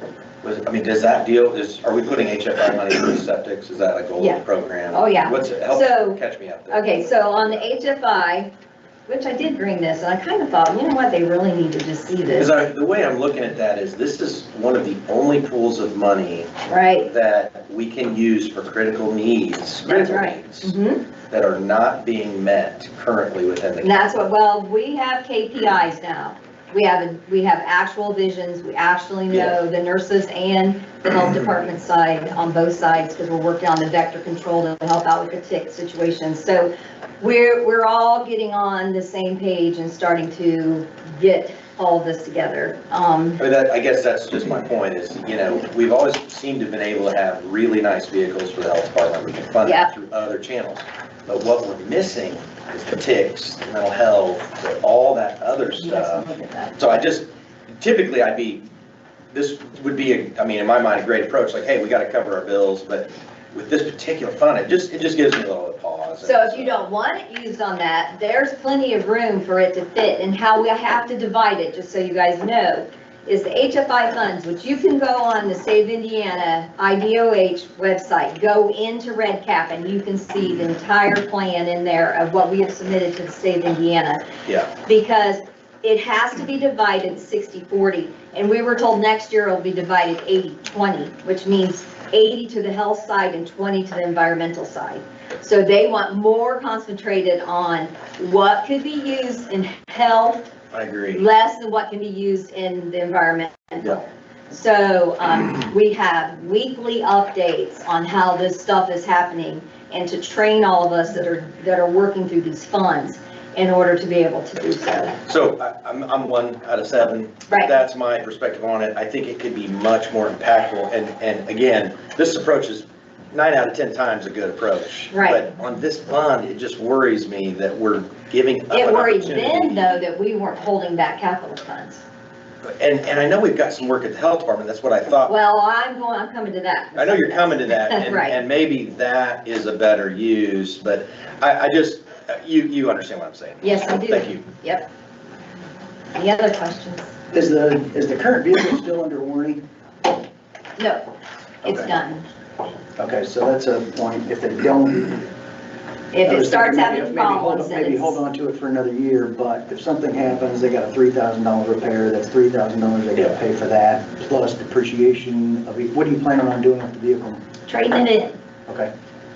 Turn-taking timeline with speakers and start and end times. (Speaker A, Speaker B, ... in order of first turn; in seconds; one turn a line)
Speaker A: 0.4-7.6
Speaker B: 4.9-6.2
Speaker B: 6.7-8.5
Speaker B: 9.1-12.5
Speaker A: 12.3-20.8
Speaker B: 16.7-17.1
Speaker B: 19.9-21.0
Speaker A: 21.3-24.1
Speaker B: 23.8-43.4
Speaker A: 43.4-57.3
Speaker B: 49.6-49.9
Speaker B: 55.8-56.8
Speaker A: 57.8-58.6
Speaker A: 59.3-66.8
Speaker B: 66.2-84.2
Speaker B: 84.8-100.4
Speaker A: 100.7-101.2
Speaker B: 101.1-104.0
Speaker B: 104.5-115.2
Speaker A: 115.3-129.8
Speaker B: 117.5-117.8
Speaker B: 125.1-125.4
Speaker B: 128.7-132.0
Speaker A: 132.6-135.3
Speaker B: 135.3-138.4
Speaker A: 137.0-144.4
Speaker B: 143.6-144.8
Speaker B: 146.2-147.1
Speaker C: 147.3-149.6
Speaker B: 151.6-152.2
Speaker C: 151.6-151.9
Speaker C: 153.0-155.3
Speaker B: 156.1-158.2
Speaker C: 156.2-167.4
Speaker B: 167.7-168.4